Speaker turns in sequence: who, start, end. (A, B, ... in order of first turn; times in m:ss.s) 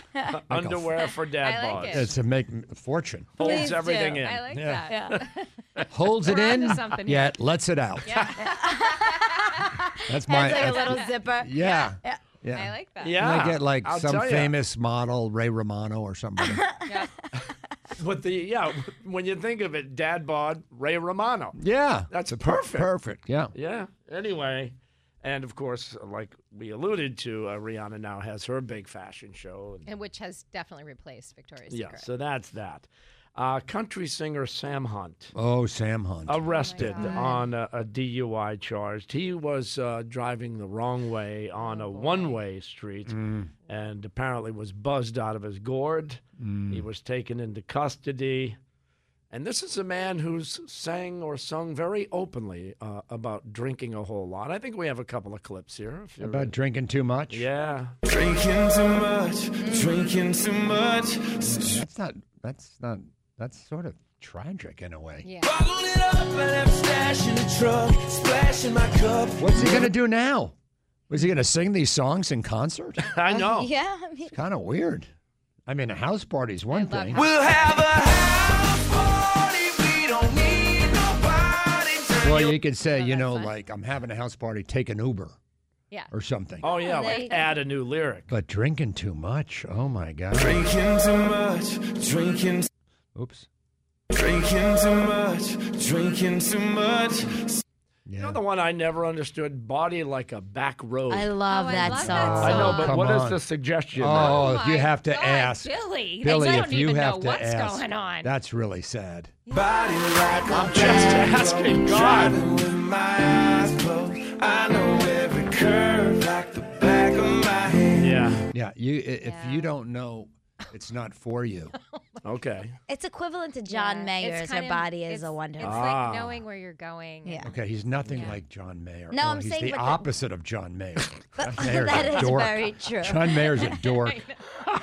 0:00.3-0:02.1 A
0:00.5-0:01.0 B
0:01.4-0:02.1 C
0:01.8-0:03.4 B
0:03.4-0:04.5 A
0:03.4-0:05.5 C
0:03.4-0:04.2 D
0:04.5-0:04.9 B
0:04.9-0:05.2 D
0:05.9-0:08.3 B
0:06.2-0:07.4 C
0:08.0-0:09.6 C
0:08.4-0:12.2 D
0:10.0-0:16.7 B
0:10.3-0:11.9 C
0:12.5-0:13.2 C
0:13.0-0:14.6 A
0:16.4-0:16.9 D
0:16.8-0:17.1 C
0:18.0-0:21.6 A
0:21.6-0:23.5 B
0:22.1-0:22.9 A
0:23.5-0:29.9 A
0:29.8-0:32.1 C
0:31.7-0:35.3 A
0:35.3-0:37.2 B
0:36.3-0:48.6 A
0:36.5-0:37.5 C
0:41.6-0:42.4 C
0:43.1-0:43.5 B
0:46.4-0:46.8 B
0:49.3-0:56.5 A
0:56.2-0:57.5 B
0:57.3-0:57.9 A
0:58.0-1:01.8 E
0:59.6-1:00.0 D
1:01.4-1:05.3 B
1:05.2-1:05.6 C
1:05.4-1:09.8 E
1:09.4-1:10.5 B
1:11.1-1:13.0 B
1:13.1-1:13.7 A
1:13.3-1:14.4 D
1:14.3-1:15.1 B
1:15.7-1:17.2 B
1:16.7-1:17.9 C
1:17.1-1:22.5 E
1:22.2-1:25.4 B
1:22.7-1:23.5 C
1:26.1-1:26.7 B
1:26.6-1:28.3 A
1:26.7-1:27.5 D
1:26.8-1:27.3 C
1:28.3-1:30.7 B
1:30.4-1:32.7 E
1:33.1-1:33.5 B
1:34.1-1:37.6 E
1:38.1-1:38.4 B
1:38.2-1:41.3 A
1:41.1-1:42.8 D
1:41.5-1:43.0 C
1:42.0-1:43.4 B
1:42.4-1:44.5 A
1:43.9-1:49.3 B
1:44.2-1:48.3 C
1:49.5-1:50.1 C
1:49.5-1:58.1 E
1:50.5-1:52.4 A
1:58.0-1:58.4 A
1:58.5-2:01.7 B
1:59.2-1:59.7 C
2:01.9-2:02.2 C
2:02.2-2:02.8 A
2:02.9-2:05.9 D
2:03.7-2:07.5 C
2:05.6-2:06.4 A
2:07.2-2:07.5 D
2:07.4-2:14.2 B
2:08.1-2:08.4 C
2:09.1-2:10.1 D
2:11.4-2:13.8 D
2:13.7-2:14.4 C